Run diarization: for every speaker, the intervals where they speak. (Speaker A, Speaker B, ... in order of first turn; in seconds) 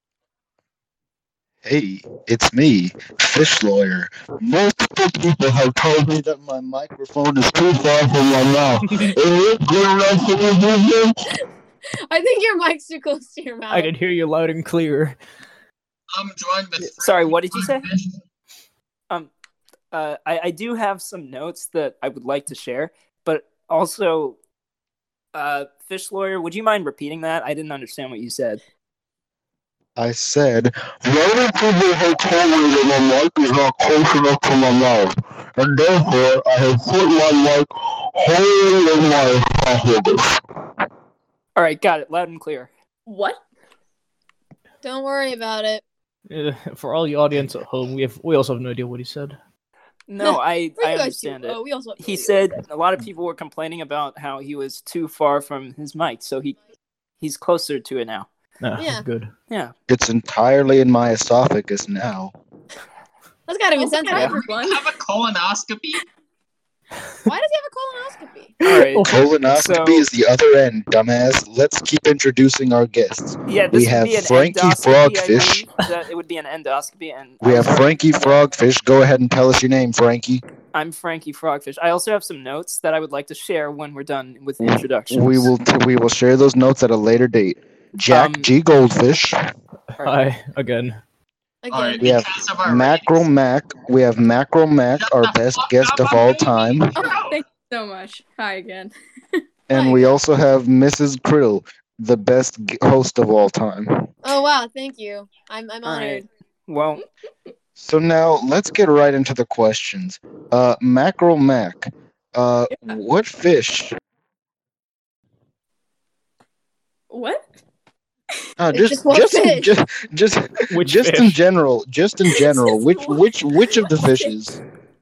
Speaker A: 1.6-11.2, 29.9-40.4, 59.9-62.3, 69.0-75.7, 77.4-80.4, 84.6-89.4, 92.0-96.9, 99.7-104.1, 107.8-114.0, 118.6-124.6
Speaker B: 8.9-9.2, 13.7-15.2, 46.3-49.4, 58.6-59.3, 68.6-69.2, 90.0-91.0, 120.7-121.4
Speaker C: 12.1-13.9, 44.8-45.8, 50.2-52.3, 58.8-59.0, 63.5-64.4, 67.2-68.5, 91.6-92.1, 99.7-100.1, 104.2-106.3, 118.7-119.7
Speaker D: 16.1-18.2, 64.4-66.0, 91.7-93.3, 95.0-97.4
Speaker E: 17.0-17.9, 19.9-24.4, 25.3-28.6, 41.5-42.7, 50.1-56.6, 57.2-58.3, 64.1-64.3, 68.6-70.0, 73.5-78.4, 80.7-85.5, 88.1-88.5, 105.8-107.0
Speaker F: 43.0-43.4, 63.7-64.9, 68.1-68.5, 96.9-99.4, 117.1-117.5, 122.3-124.3